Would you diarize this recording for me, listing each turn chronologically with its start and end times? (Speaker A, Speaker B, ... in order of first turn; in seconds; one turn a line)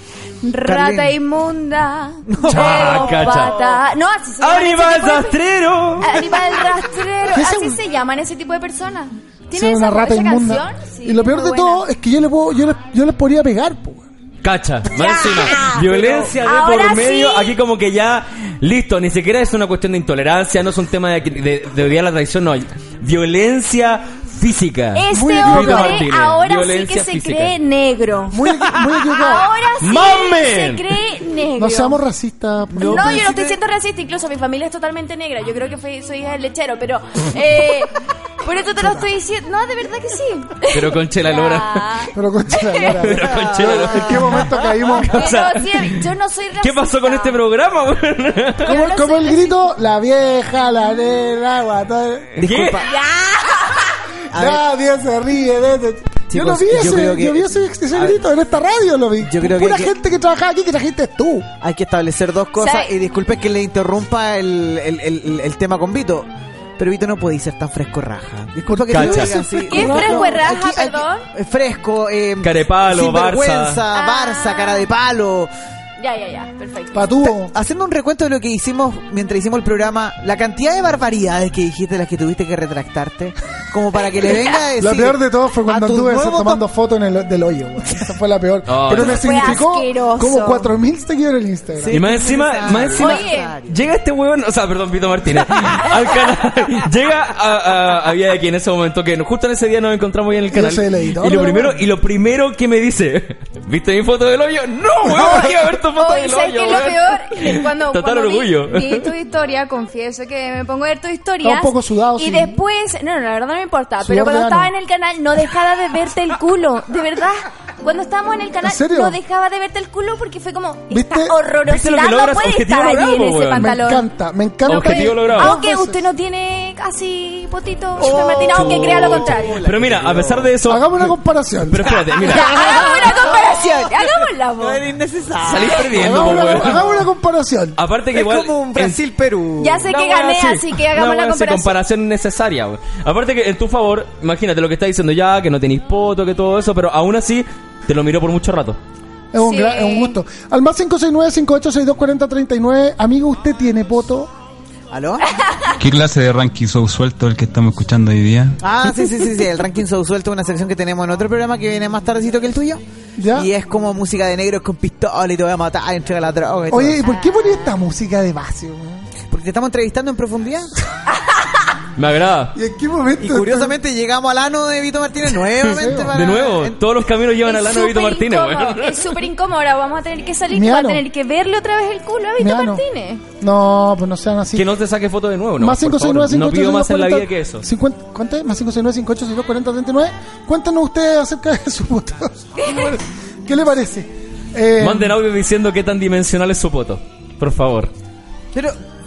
Speaker A: 0.4-5.4
Speaker B: 0.6-1.2
Speaker B: 2.3-3.5
Speaker C: 2.5-3.5
Speaker C: 4.4-6.4
Speaker A: 6.0-11.8
Speaker D: 7.3-7.8
Speaker D: 9.5-14.1
Speaker C: 14.4-27.6
Speaker A: 14.9-15.8
Speaker B: 15.8-16.4
Speaker A: 16.3-17.6
Speaker A: 24.9-28.4
Speaker D: 25.1-26.1
Speaker D: 28.3-29.5
Speaker A: 29.1-32.0
Speaker C: 29.8-30.9
Speaker D: 31.6-33.3
Speaker B: 32.7-33.6
Speaker A: 32.8-43.0
Speaker D: 38.8-39.1
Speaker C: 40.7-42.1
Speaker D: 42.1-45.1
Speaker C: 43.0-46.0
Speaker B: 43.1-44.5
Speaker A: 45.0-47.4
Speaker C: 46.6-48.7
Speaker D: 48.6-52.4
Speaker A: 48.6-49.7
Speaker C: 52.4-52.8
Speaker B: 52.4-52.9
Speaker A: 52.8-54.0
Speaker B: 54.3-54.6
Speaker D: 54.3-61.5
Speaker B: 56.3-58.2
Speaker B: 59.2-59.9
Speaker B: 61.6-75.5
Speaker A: 62.6-62.9
Speaker D: 68.7-70.4
Speaker C: 68.9-69.4
Speaker A: 69.5-71.3
Speaker C: 72.4-73.8
Speaker A: 73.9-74.9
Speaker A: 76.0-77.1
Speaker D: 76.9-77.5
Speaker B: 77.2-86.6
Speaker D: 84.8-92.0
Speaker C: 88.7-89.6
Speaker A: 88.9-90.7
Speaker B: 91.8-93.9
Speaker C: 91.9-109.1
Speaker A: 93.0-93.5
Speaker D: 100.5-101.8
Speaker D: 105.1-105.6
Speaker A: 106.0-124.1
Speaker D: 111.4-112.6
Speaker D: 114.0-114.7
Speaker D: 118.6-119.2
Speaker D: 120.9-121.3
Speaker C: 121.7-123.8
Speaker D: 123.6-126.0
Speaker C: 124.7-125.5
Speaker A: 124.7-129.6
Speaker B: 128.0-130.5
Speaker C: 128.5-131.1
Speaker D: 130.7-133.0
Speaker C: 131.7-132.6
Speaker B: 131.9-137.0
Speaker A: 132.3-134.8
Speaker C: 135.4-136.8
Speaker D: 135.9-137.8
Speaker C: 137.8-139.0
Speaker B: 138.1-139.8
Speaker A: 139.6-141.8
Speaker C: 139.9-148.8
Speaker D: 149.3-154.3
Speaker A: 149.4-150.2
Speaker B: 154.9-155.3
Speaker A: 155.4-155.7
Speaker E: 155.8-158.6
Speaker B: 158.6-162.8
Speaker D: 163.2-163.5
Speaker B: 163.3-167.0
Speaker D: 166.7-169.1
Speaker A: 167.0-167.7
Speaker B: 169.3-170.7
Speaker A: 171.1-171.7
Speaker C: 172.0-172.6
Speaker D: 172.6-173.8
Speaker B: 173.2-176.8
Speaker D: 175.7-176.2
Speaker C: 176.1-179.2
Speaker A: 177.4-183.2
Speaker D: 180.5-181.0
Speaker D: 182.4-182.8
Speaker D: 183.4-184.8
Speaker C: 184.5-187.7
Speaker D: 185.6-195.2
Speaker A: 192.6-192.9
Speaker C: 194.8-197.9